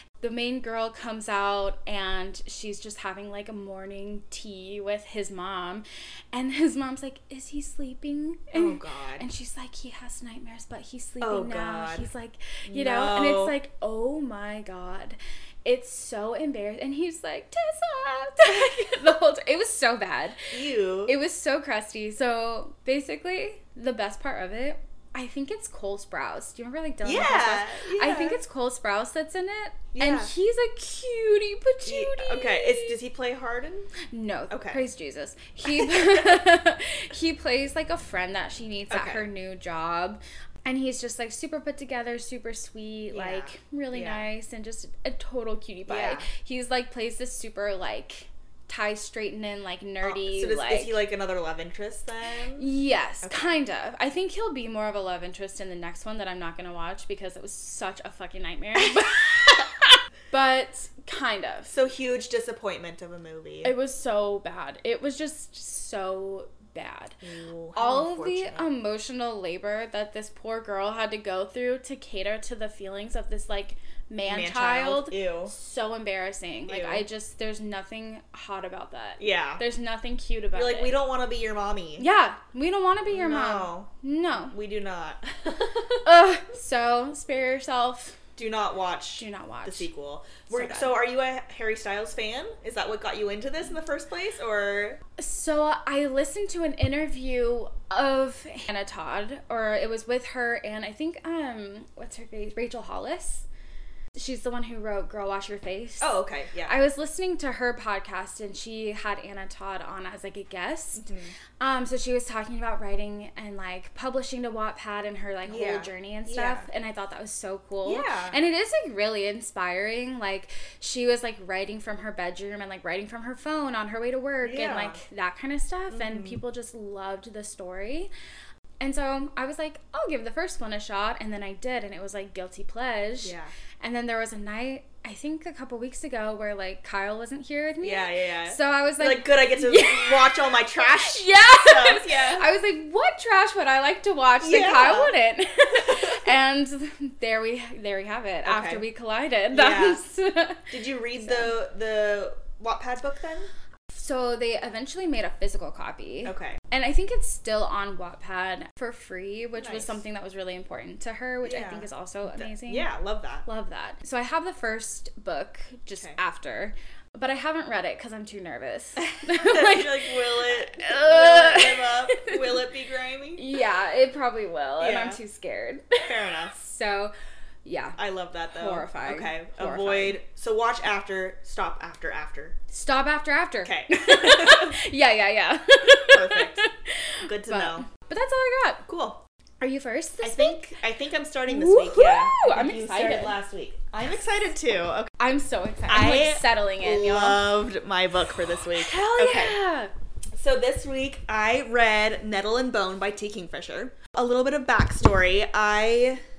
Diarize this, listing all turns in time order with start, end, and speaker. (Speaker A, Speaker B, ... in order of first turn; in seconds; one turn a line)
Speaker A: 0.2-20.4
Speaker B: 8.5-9.2
Speaker B: 11.2-12.1
Speaker B: 12.7-13.5
Speaker B: 20.5-21.1
Speaker A: 21.1-33.0
Speaker B: 27.0-28.4
Speaker B: 29.9-30.3
Speaker B: 31.8-33.9
Speaker A: 34.0-51.0
Speaker B: 34.5-34.8
Speaker B: 35.6-36.4
Speaker B: 38.9-39.2
Speaker B: 43.1-44.3
Speaker B: 45.9-46.3
Speaker B: 50.0-52.6
Speaker A: 52.5-61.7
Speaker B: 53.2-53.5
Speaker B: 61.7-63.7
Speaker A: 63.6-67.2
Speaker B: 67.2-68.7
Speaker A: 67.8-81.0
Speaker B: 74.3-75.5
Speaker B: 76.7-77.0
Speaker B: 79.2-79.6
Speaker B: 80.5-82.0
Speaker A: 82.0-84.5
Speaker B: 83.1-86.0
Speaker A: 86.0-88.2
Speaker B: 88.3-95.0
Speaker A: 89.2-89.9
Speaker A: 90.5-90.9
Speaker A: 95.2-103.5
Speaker A: 104.1-128.1
Speaker B: 106.0-106.8
Speaker B: 111.0-111.3
Speaker B: 115.5-116.7
Speaker B: 117.8-118.3
Speaker B: 124.4-125.0
Speaker B: 125.9-126.4
Speaker A: 128.8-151.5
Speaker B: 133.2-133.5
Speaker B: 137.8-142.4
Speaker B: 144.4-145.2
Speaker B: 145.7-146.2
Speaker B: 148.4-148.8
Speaker B: 149.5-150.0
Speaker B: 150.7-153.5
Speaker A: 153.9-162.9
Speaker B: 156.2-156.6
Speaker B: 159.6-160.0
Speaker B: 161.4-163.4
Speaker A: 163.4-172.6
Speaker B: 169.0-173.4
Speaker A: 173.3-177.1
Speaker B: 174.8-175.2
Speaker B: 176.0-176.6
Speaker A: 177.6-178.0
Speaker B: 178.0-182.6
Speaker A: 178.5-180.2
Speaker A: 182.7-188.8
Speaker B: 183.6-184.8
Speaker B: 186.1-186.6
Speaker B: 187.2-187.9
Speaker B: 188.8-189.2
Speaker A: 189.6-190.6
Speaker B: 190.2-195.1
Speaker A: 191.5-193.3
Speaker A: 195.2-197.4
Speaker B: 195.9-199.6
Speaker A: 198.8-199.9
Speaker B: 200.3-206.2